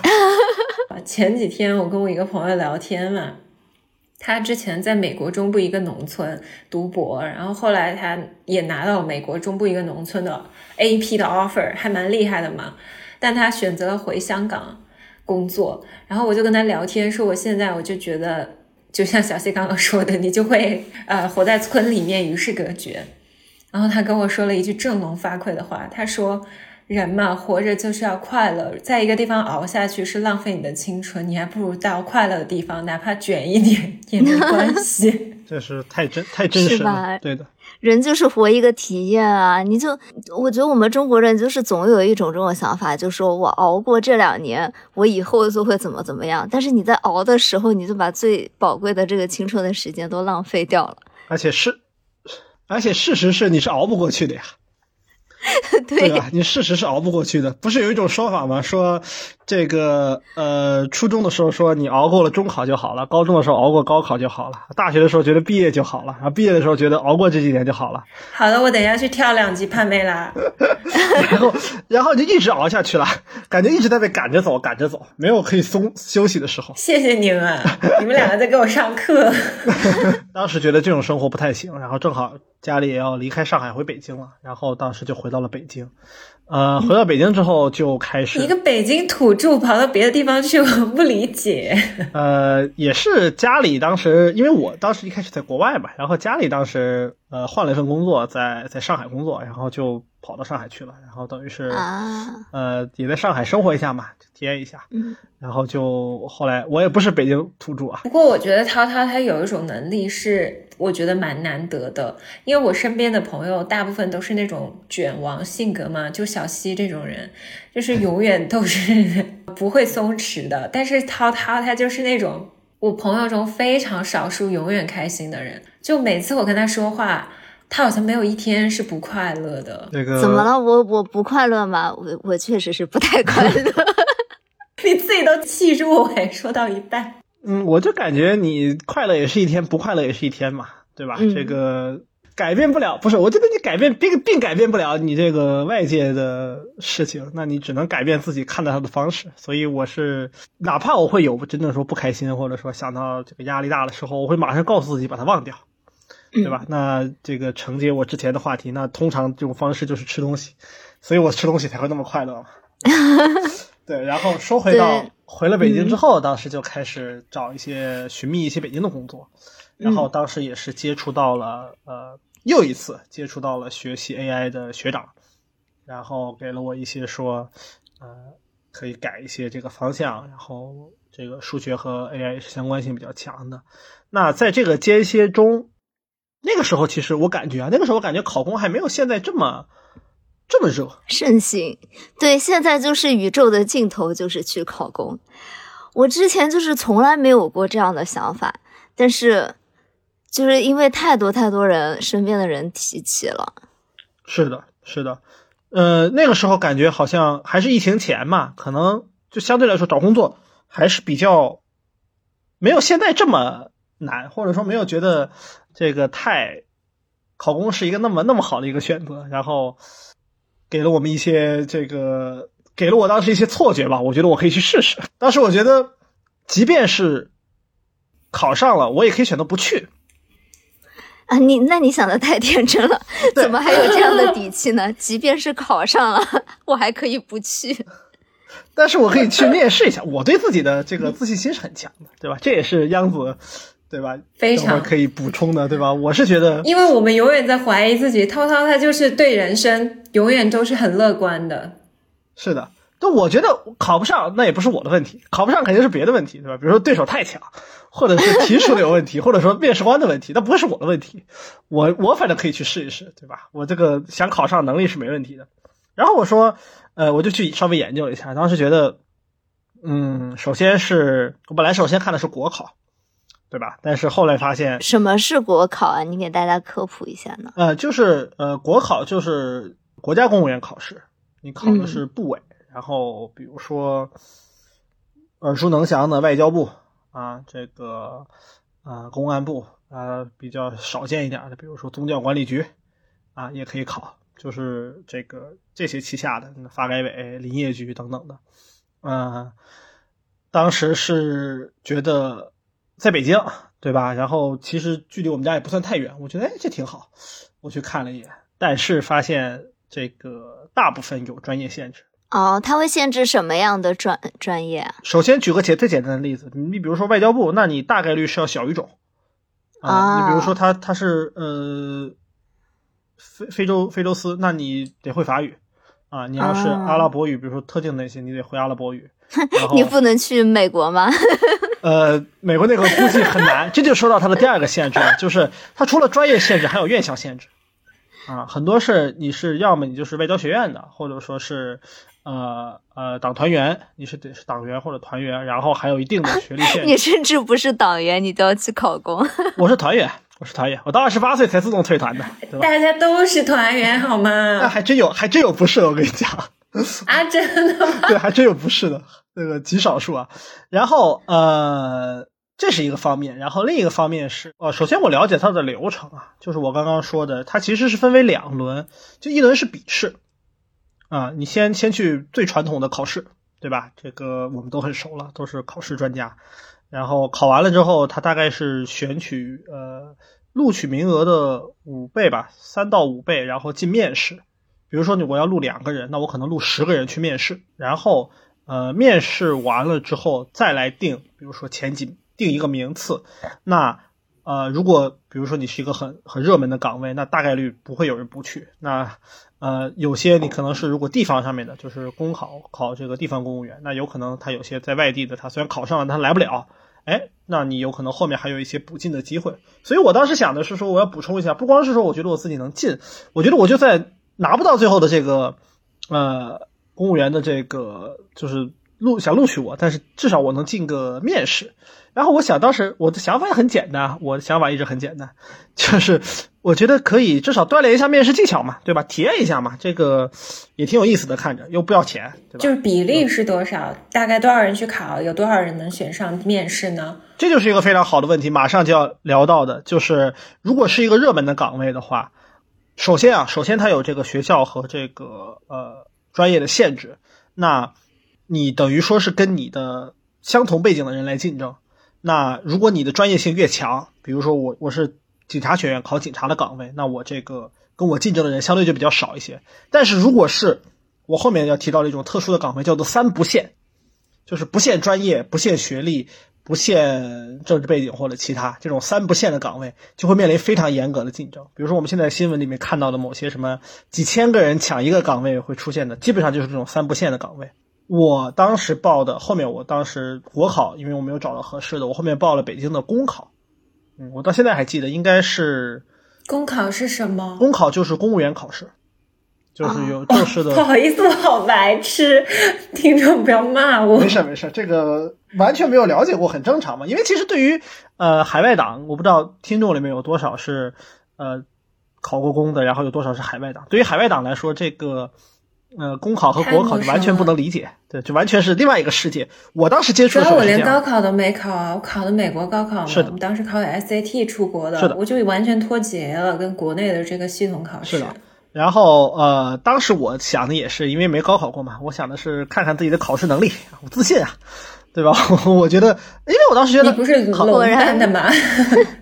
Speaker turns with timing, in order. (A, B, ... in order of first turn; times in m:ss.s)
0:00.3-0:00.7 A
0:00.9-0:03.4 B
0:04.2-0:23.1 B
0:23.7-0:35.4 B
0:34.2-0:34.7 A
0:35.5-0:37.5 C
0:36.5-0:37.2 A
0:37.8-0:51.0 A
0:51.3-0:54.5 C
0:55.4-0:56.2 A
0:56.0-1:08.1 C
1:08.3-1:10.5 B
1:11.1-1:16.8 C
1:16.8-1:20.1 B
1:20.2-1:25.9 C
1:26.5-1:28.5 C
1:28.3-1:32.1 B
1:32.1-1:41.9 C
1:41.7-1:42.4 A
1:42.5-1:44.9 C
1:45.4-1:48.0 C
1:48.0-2:09.9 B
2:09.9-2:10.5 C
2:10.2-2:14.2 A
2:14.8-2:17.2 B
2:17.4-2:35.6 C
2:21.2-2:21.6 A
2:36.4-2:42.5 C
2:42.9-2:43.4 A
2:43.9-2:49.3 C
2:44.7-2:45.1 A
2:45.6-2:46.0 A
2:49.8-2:50.1 A
2:49.8-2:55.1 C
2:55.9-3:05.7 C
3:06.4-3:09.7 C
3:10.5-3:11.0 C
3:11.1-3:15.2 A
3:16.0-3:19.6 A
3:20.3-3:23.5 A
3:24.3-3:25.2 C
3:25.7-3:31.6 C
3:32.6-3:36.6 C
3:37.4-3:39.8 C
3:40.7-3:45.9 C
3:46.5-3:47.3 C
3:48.3-3:49.9 C
3:51.3-3:57.8 A
3:53.3-3:53.6 C
3:58.8-4:06.7 C
4:04.4-4:04.9 B
4:06.6-4:11.8 B
4:12.4-4:29.0 C
4:29.8-4:32.7 C
4:33.5-4:34.8 C
4:34.8-4:37.5 A
4:37.6-4:44.1 C
4:41.6-4:42.0 A
4:45.4-4:48.3 C
4:48.8-4:52.7 C
4:53.4-4:58.4 C
4:59.0-4:59.5 C
5:00.5-5:07.1 C
5:07.6-5:12.0 C
5:12.3-5:15.0 A
5:15.0-5:18.9 C
5:19.8-5:22.2 C
5:19.8-5:20.5 A
5:23.3-5:25.6 C
5:26.1-5:29.9 C
5:26.4-5:27.1 A
5:29.6-5:31.7 A
5:31.8-5:37.5 C
5:32.9-5:33.3 A
5:38.3-5:47.0 C
5:46.3-5:49.5 A
5:49.6-5:52.7 C
5:52.5-5:54.7 B
5:54.6-5:57.0 C
5:57.1-5:58.2 B
5:58.0-6:10.2 C
6:11.1-6:16.4 C
6:16.9-6:55.6 C
6:56.1-7:13.3 C
7:12.6-7:17.2 B
7:17.4-7:22.3 C
7:23.0-7:27.9 C
7:28.5-7:43.7 C
7:44.5-8:03.5 C
8:04.2-8:06.0 C
8:06.5-8:07.7 B
8:07.6-8:08.9 C
8:09.8-8:10.8 C
8:09.8-8:10.1 A
8:10.3-8:14.4 B
8:14.1-8:21.6 C
8:22.2-8:25.3 C
8:26.0-8:31.0 C
8:26.6-8:27.5 B
8:30.3-8:38.4 B
8:33.1-8:33.3 C
8:38.0-8:44.6 C
8:45.1-8:47.7 C
8:47.0-8:49.1 B
8:47.6-8:48.3 A